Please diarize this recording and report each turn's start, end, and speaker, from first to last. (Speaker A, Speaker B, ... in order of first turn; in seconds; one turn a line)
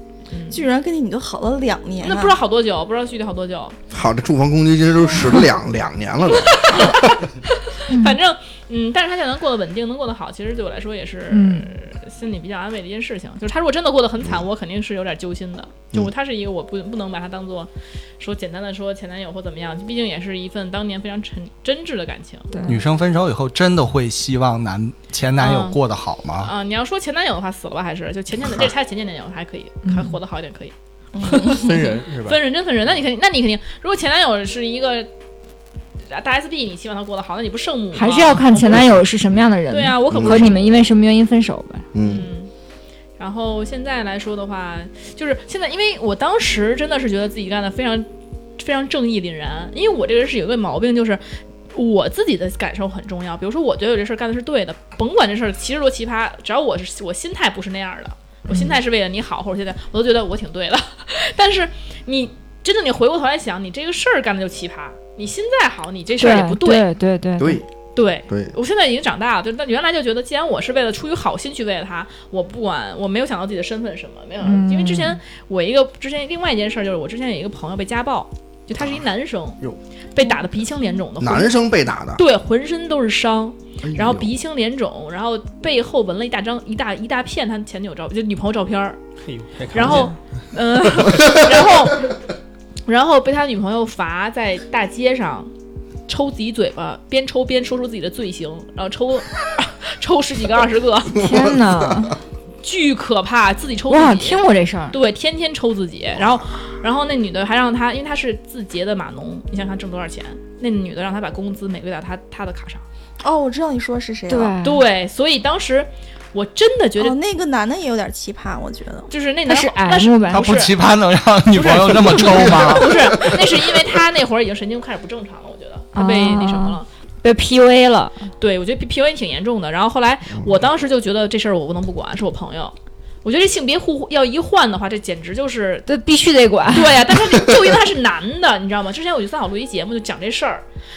Speaker A: 0.3-0.6
Speaker B: 0.5-2.4
Speaker A: 2.0-3.8
Speaker C: 3.9-7.0
Speaker A: 6.4-22.5
Speaker D: 7.9-8.2
Speaker D: 11.3-11.7
Speaker D: 22.5-22.8
Speaker E: 22.6-26.5
Speaker A: 25.4-25.8
Speaker A: 26.4-35.1
Speaker D: 29.8-30.1
Speaker B: 31.1-31.7
Speaker F: 31.4-32.4
Speaker A: 36.1-39.0
Speaker D: 37.9-41.9
Speaker A: 39.7-40.6
Speaker C: 40.1-40.5
Speaker C: 41.9-42.3
Speaker A: 42.0-42.5
Speaker A: 43.2-48.1
Speaker A: 48.6-51.2
Speaker A: 51.7-66.8
Speaker D: 58.5-58.8
Speaker D: 66.2-67.6
Speaker C: 67.4-67.7
Speaker A: 67.9-79.6
Speaker D: 74.4-75.2
Speaker A: 80.1-81.6
Speaker C: 81.2-82.2
Speaker A: 82.2-89.0
Speaker C: 83.8-84.3
Speaker F: 89.2-90.1
Speaker A: 89.7-92.1
Speaker A: 92.8-95.5
Speaker A: 96.1-101.2
Speaker C: 101.1-102.1
Speaker D: 101.1-102.2
Speaker A: 102.6-112.8
Speaker D: 103.9-105.0
Speaker B: 113.2-114.5
Speaker D: 114.3-114.8
Speaker A: 114.6-117.2
Speaker B: 117.0-119.1
Speaker A: 119.1-120.7
Speaker D: 119.5-120.5
Speaker E: 120.3-123.3
Speaker F: 121.6-122.7
Speaker A: 121.9-126.9
Speaker C: 122.6-123.4
Speaker D: 125.9-128.2
Speaker A: 128.4-135.9
Speaker D: 135.8-137.0
Speaker A: 136.7-140.6